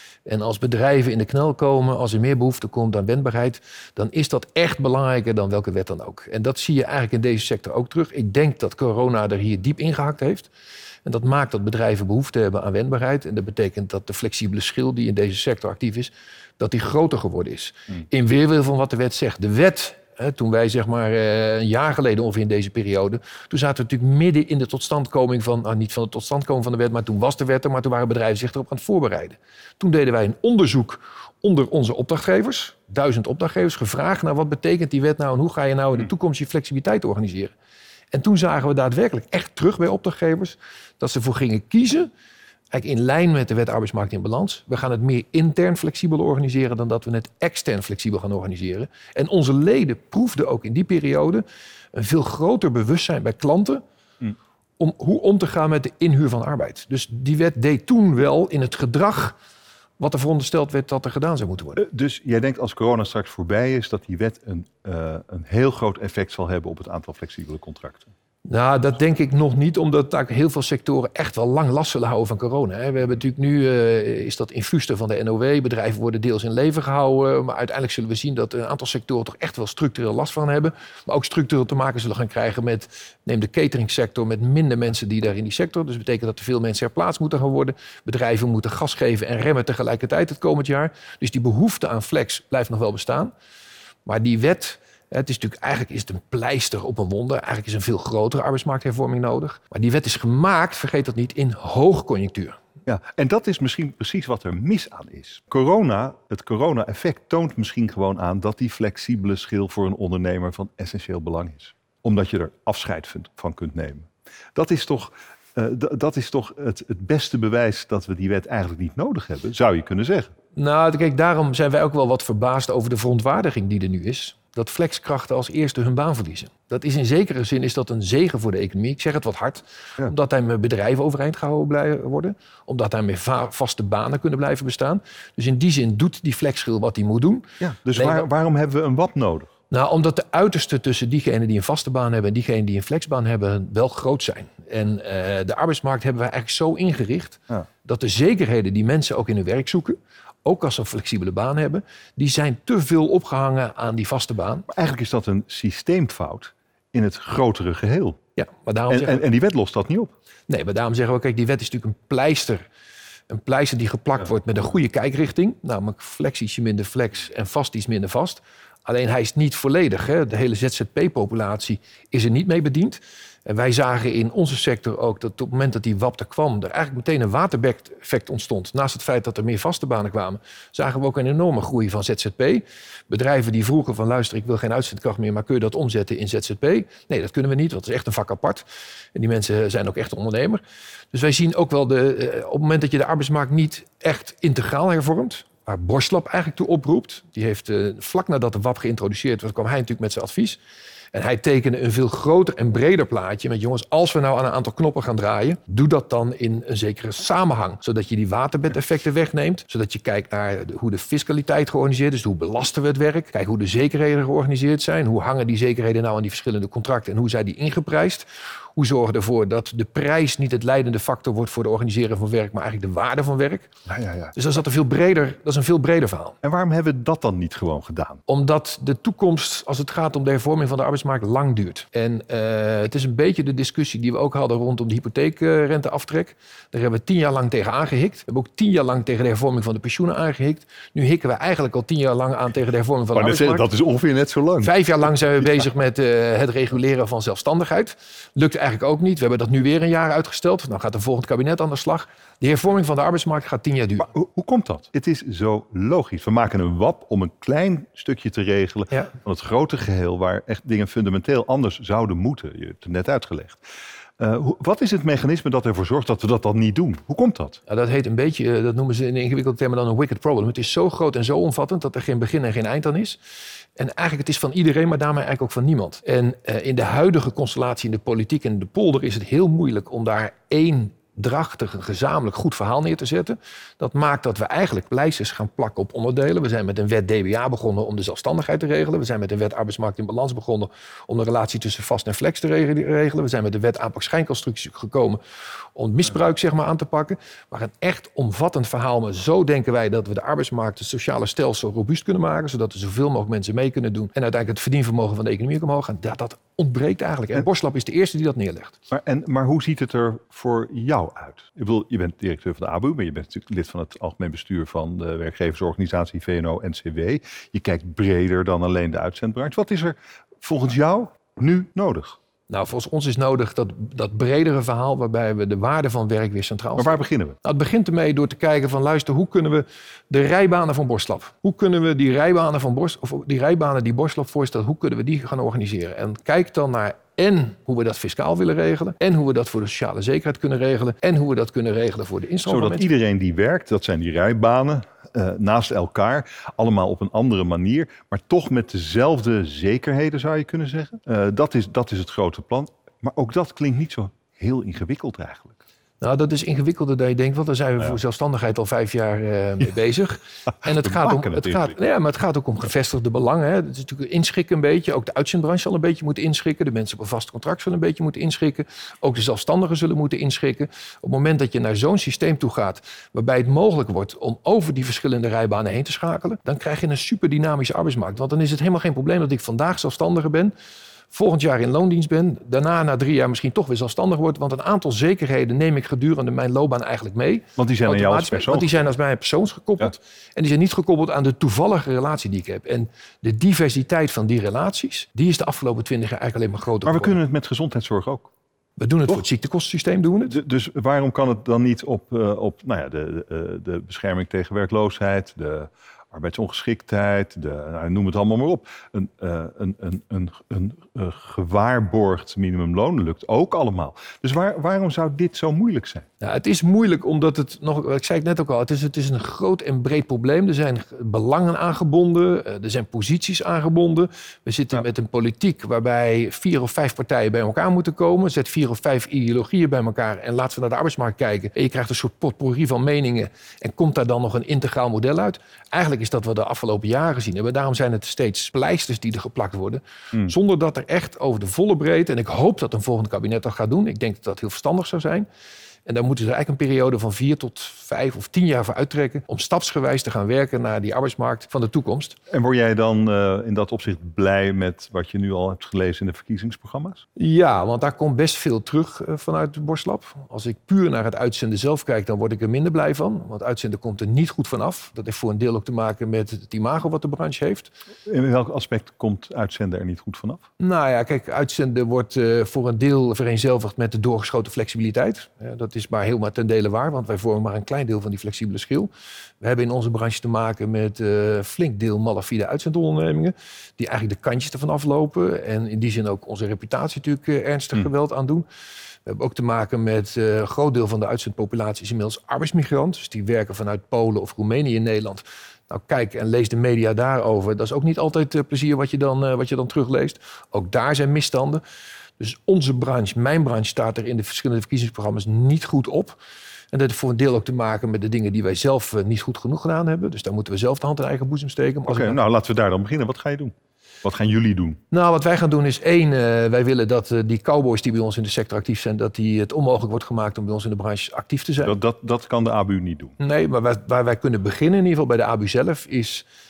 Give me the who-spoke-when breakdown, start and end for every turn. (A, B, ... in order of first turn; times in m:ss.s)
0:00.2-0:10.5 A
0:11.0-0:37.5 A
0:38.1-0:42.1 A
0:42.7-0:51.4 A
0:51.9-0:53.8 A
0:54.8-0:59.4 A
1:00.0-1:01.8 A
1:01.8-1:08.1 B
1:08.4-1:33.3 A
1:34.0-1:42.6 A
1:42.8-2:00.3 B
2:00.6-2:18.3 A
2:17.6-2:19.5 B
2:19.7-2:34.6 A
2:34.7-2:38.2 B
2:38.4-2:39.2 A
2:38.9-2:40.1 B
2:40.5-2:42.6 A
2:43.3-3:10.6 A
3:11.1-3:20.6 A
3:21.1-3:43.7 A
3:43.9-3:44.3 B
3:44.3-3:46.4 A
3:46.4-3:48.2 B
3:48.3-4:03.7 A
4:03.1-4:04.7 B
4:04.6-4:14.1 A
4:14.1-4:23.6 B
4:24.2-4:27.6 B
4:27.7-4:33.2 A
4:33.8-4:55.2 A
4:55.7-5:08.8 A
5:08.9-5:22.2 B
5:22.5-5:42.8 A
5:26.8-5:27.4 B
5:42.4-5:55.6 B
5:56.0-6:20.5 A
6:00.6-6:01.7 B
6:21.1-6:37.2 A
6:27.6-6:28.8 B
6:36.8-6:38.3 B
6:38.8-6:40.4 A
6:40.3-6:56.0 B
6:56.2-7:25.2 A
7:25.8-7:32.2 A
7:32.3-7:37.0 B
7:37.2-7:47.7 A
7:48.1-7:50.4 B
7:50.6-7:58.9 A
7:59.4-8:08.4 A
8:09.0-8:21.6 A
8:22.2-8:26.2 A
8:26.7-8:32.2 A
8:31.8-8:34.8 B
8:34.9-8:41.8 A
8:41.6-8:43.1 B
8:43.2-8:46.2 A